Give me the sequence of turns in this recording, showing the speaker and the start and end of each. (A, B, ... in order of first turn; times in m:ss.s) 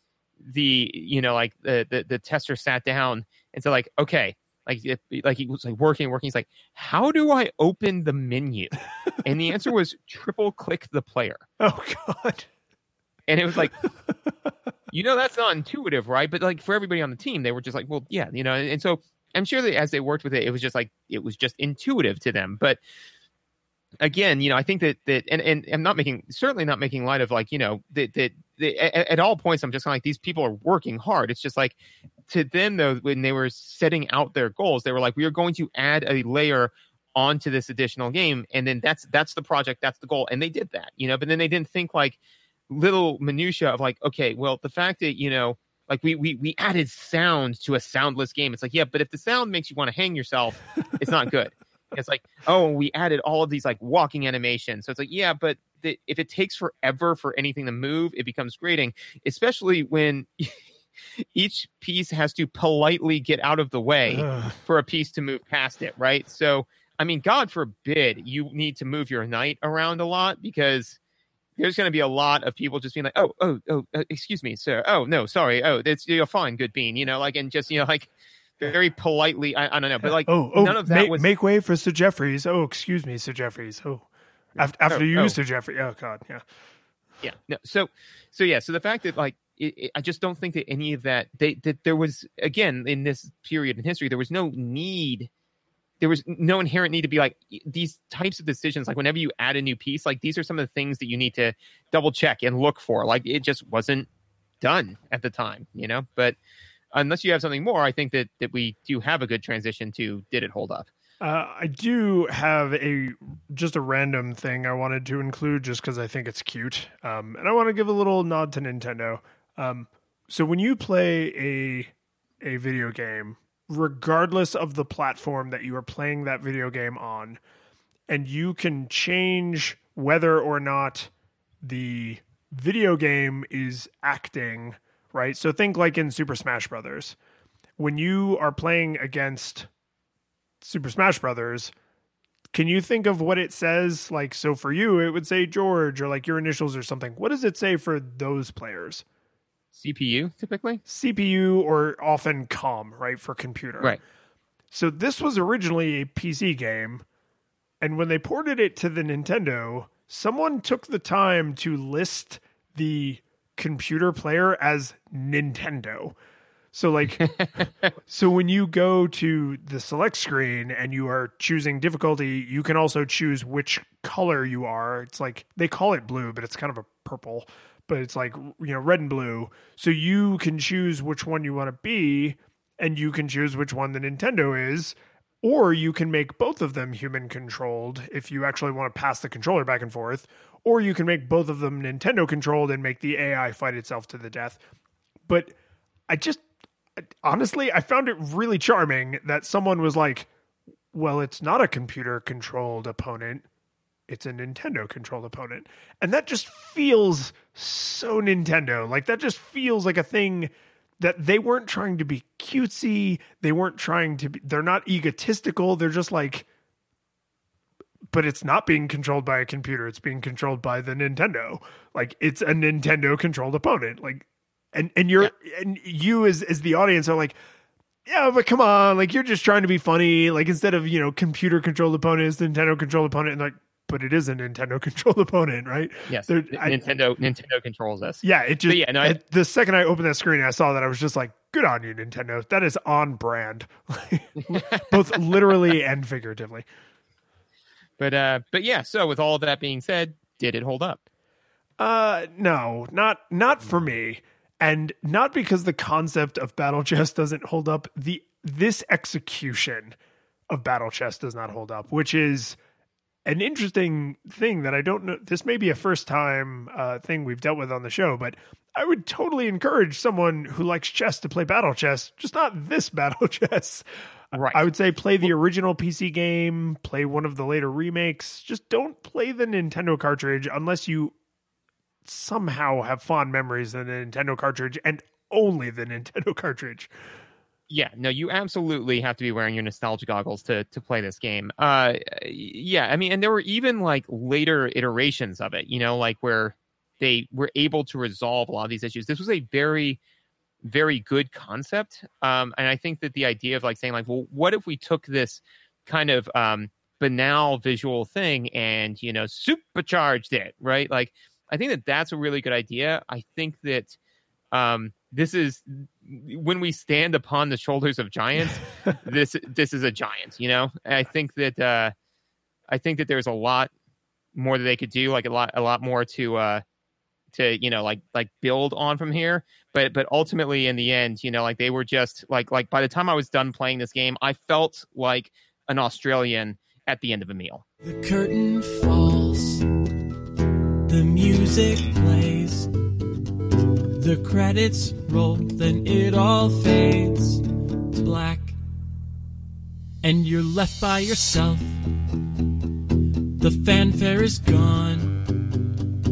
0:00.4-0:11.4 A
0:11.6-0:12.5 B
0:13.3-0:13.8 A
0:14.9-0:22.8 A
0:24.0-0:31.8 A
0:32.3-0:42.2 A
0:42.7-1:00.6 A
1:01.3-1:11.0 A
1:04.1-1:04.6 B
1:11.6-1:21.3 A
1:20.0-1:26.4 B
1:24.9-1:25.4 A
1:27.2-1:35.3 A
1:36.0-1:44.1 A
1:44.6-1:46.4 A
1:46.9-1:50.9 A
1:51.2-2:07.4 B
2:08.1-2:17.2 B
2:17.8-2:19.7 B
2:20.6-2:21.7 B
2:22.5-2:29.0 B
2:29.7-2:30.8 A
2:30.9-2:34.0 B
2:34.7-2:37.0 B
2:37.8-2:46.2 B
2:46.7-2:47.3 B
2:47.2-2:47.7 A
2:48.1-3:14.6 B
3:15.3-3:15.5 B
3:16.1-3:16.4 B
3:17.0-3:20.3 B
3:20.9-3:23.5 B
3:24.1-3:36.5 B
3:38.1-3:47.4 B
3:48.1-3:56.9 B
3:56.1-3:59.2 A
3:58.2-4:06.7 B
4:04.4-4:04.9 A
4:08.0-4:11.0 A
4:11.8-4:20.0 B
4:20.5-4:22.6 B
4:23.2-4:33.8 B
4:34.3-4:34.7 A
4:34.4-4:41.2 B
4:42.0-4:46.9 B
4:47.7-5:00.0 A
5:00.6-5:14.0 A
5:14.5-5:21.9 A
5:22.7-5:23.7 A
5:24.4-5:26.6 A
5:27.3-5:37.6 A
5:37.8-5:39.7 C
5:40.9-5:42.7 C
5:44.0-5:48.6 C
5:50.0-5:51.8 C
5:53.4-5:55.2 C